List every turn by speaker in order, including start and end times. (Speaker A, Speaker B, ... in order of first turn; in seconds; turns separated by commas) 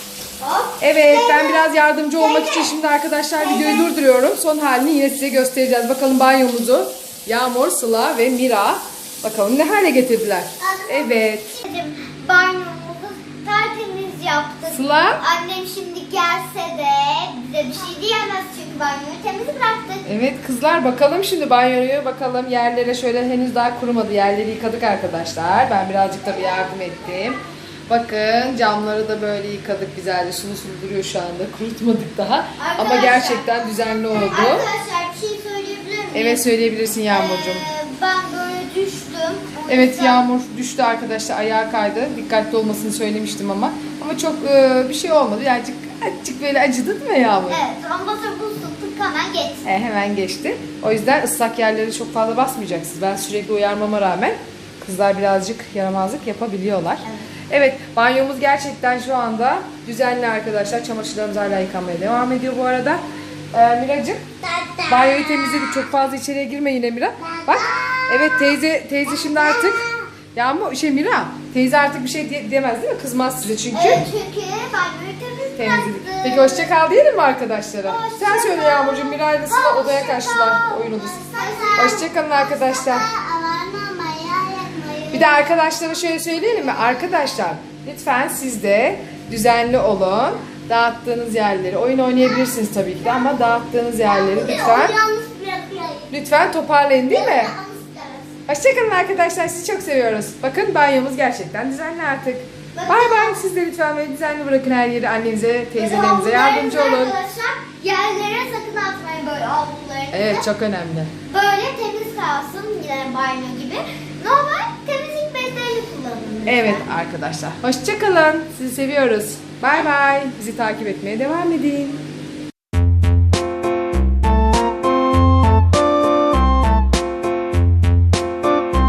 Speaker A: 0.4-1.6, Speaker B: 0.8-11.5, Speaker A: 2.2-2.7, Speaker A: 3.4-3.9, Speaker A: 10.6-20.1, Speaker B: 14.7-15.2, Speaker B: 20.0-34.7, Speaker A: 26.3-26.7, Speaker A: 32.6-33.5, Speaker A: 34.1-36.4, Speaker B: 36.1-37.6, Speaker A: 37.1-40.2, Speaker B: 39.7-47.6, Speaker A: 47.5-49.6, Speaker B: 49.6-64.2, Speaker A: 64.4-65.8, Speaker B: 64.9-74.1, Speaker A: 67.2-68.5, Speaker A: 69.0-70.1, Speaker A: 73.7-76.7, Speaker B: 75.5-81.2, Speaker A: 77.8-85.4, Speaker B: 81.7-83.1, Speaker B: 85.1-95.0, Speaker A: 92.2-92.5, Speaker A: 93.0-96.1, Speaker B: 96.1-97.5, Speaker A: 97.1-98.3, Speaker B: 98.5-107.2, Speaker A: 102.7-103.4, Speaker A: 105.8-110.5, Speaker B: 110.1-111.1, Speaker A: 111.3-116.9, Speaker B: 116.5-122.0